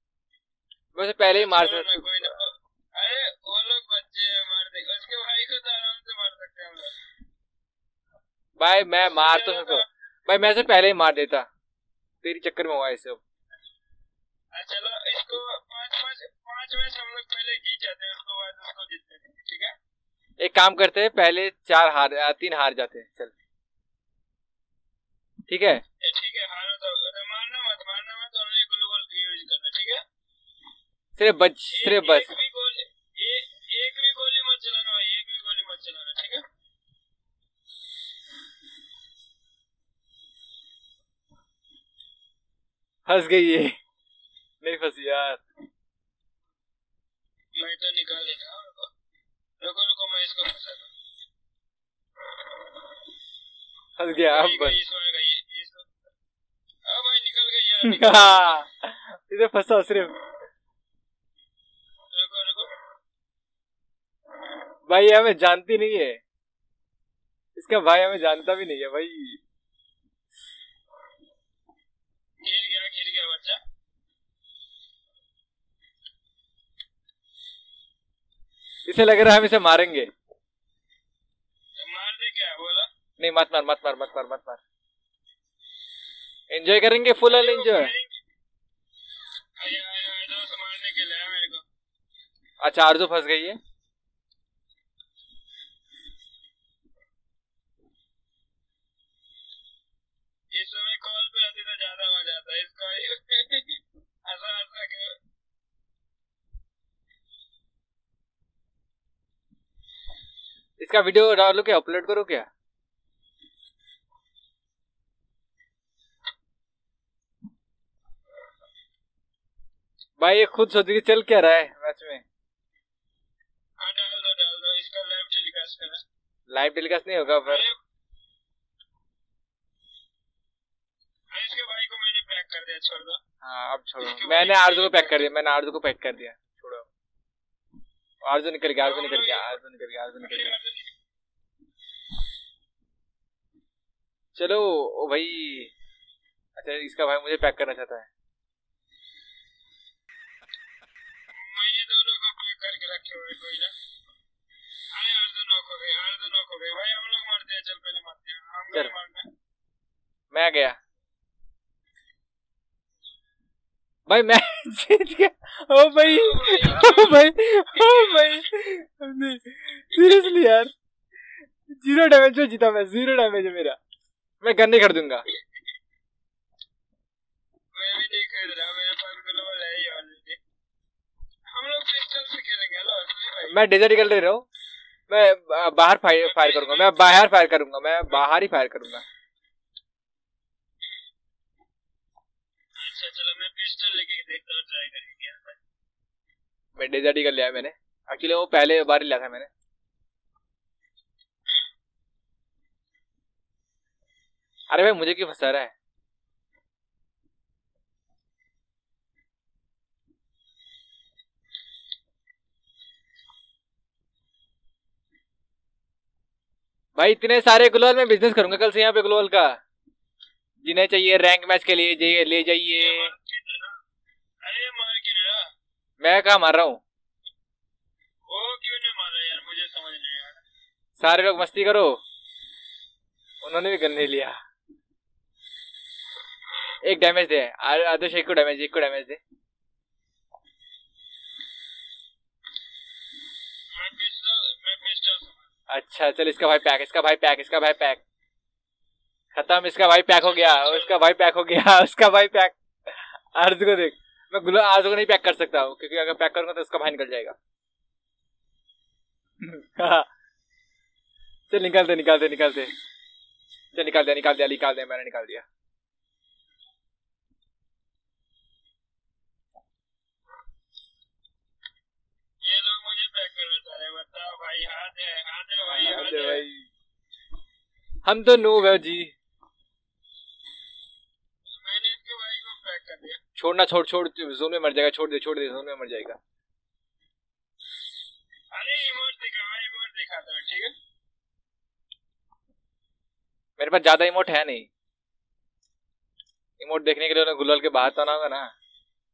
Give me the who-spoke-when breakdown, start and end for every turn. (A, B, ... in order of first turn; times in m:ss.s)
0:00.9-0:02.0 A
0:01.2-0:06.9 B
0:08.6-0:11.5 A
0:09.0-0:09.9 B
0:12.2-0:13.2 A
0:14.5-0:19.7 B
0:20.4-0:23.3 A
0:25.5-0:25.8 A
0:26.0-0:30.0 B
0:31.2-0:32.3 A
0:31.7-0:36.4 B
0:43.0-0:43.8 A
0:44.6-0:45.4 A
0:47.6-0:48.9 B
0:49.6-0:50.9 B
0:54.0-0:54.8 A
0:54.1-0:56.1 B
0:56.8-0:58.6 B
0:57.8-1:00.2 A
1:02.1-1:02.8 B
1:04.9-1:06.2 A
1:07.5-1:09.4 A
1:12.4-1:13.6 B
1:18.8-1:20.1 A
1:21.8-1:22.9 B
1:23.2-1:24.6 A
1:26.5-1:27.9 A
1:27.2-1:28.2 B
1:29.6-1:31.6 B
1:32.6-1:33.6 A
1:40.5-1:45.2 B
1:50.8-1:52.5 A
2:00.2-2:02.2 A
2:03.8-2:06.0 B
2:06.5-2:07.6 A
2:07.3-2:07.8 B
2:11.3-2:13.2 B
2:13.4-2:16.9 A
2:14.0-2:15.3 B
2:18.2-2:20.5 A
2:18.8-2:19.6 B
2:20.2-2:20.9 B
2:24.4-2:25.7 A
2:26.6-2:28.1 A
2:31.3-2:33.7 B
2:34.9-2:39.3 B
2:40.3-2:40.8 A
2:44.1-2:50.7 A
2:46.0-2:48.5 B
2:51.7-2:53.8 A
2:54.4-2:55.2 A
2:57.7-3:00.4 B
3:01.5-3:03.6 B
3:03.5-3:04.4 A
3:05.1-3:09.0 A
3:06.2-3:07.2 B
3:12.8-3:15.6 B
3:16.8-3:19.5 A
3:24.7-3:25.7 A
3:37.0-3:39.6 A
3:40.6-3:43.1 A
3:42.8-3:43.8 B
3:44.4-3:45.5 B
3:46.0-3:46.8 A
3:48.3-3:50.4 B
3:51.0-3:52.0 A
3:53.4-3:54.4 A
3:56.8-3:59.2 A
4:03.7-4:05.5 B
4:05.7-4:08.0 A
4:09.3-4:17.4 A
4:10.2-4:11.0 B
4:19.4-4:20.1 A
4:21.5-4:22.7 A
4:23.7-4:25.4 A
4:32.4-4:36.4 B
4:35.7-4:36.7 A
4:38.0-4:39.1 A
4:41.5-4:43.2 B
4:43.4-4:46.2 A
4:48.5-4:50.7 B
4:53.6-4:54.7 A
4:56.6-4:58.5 A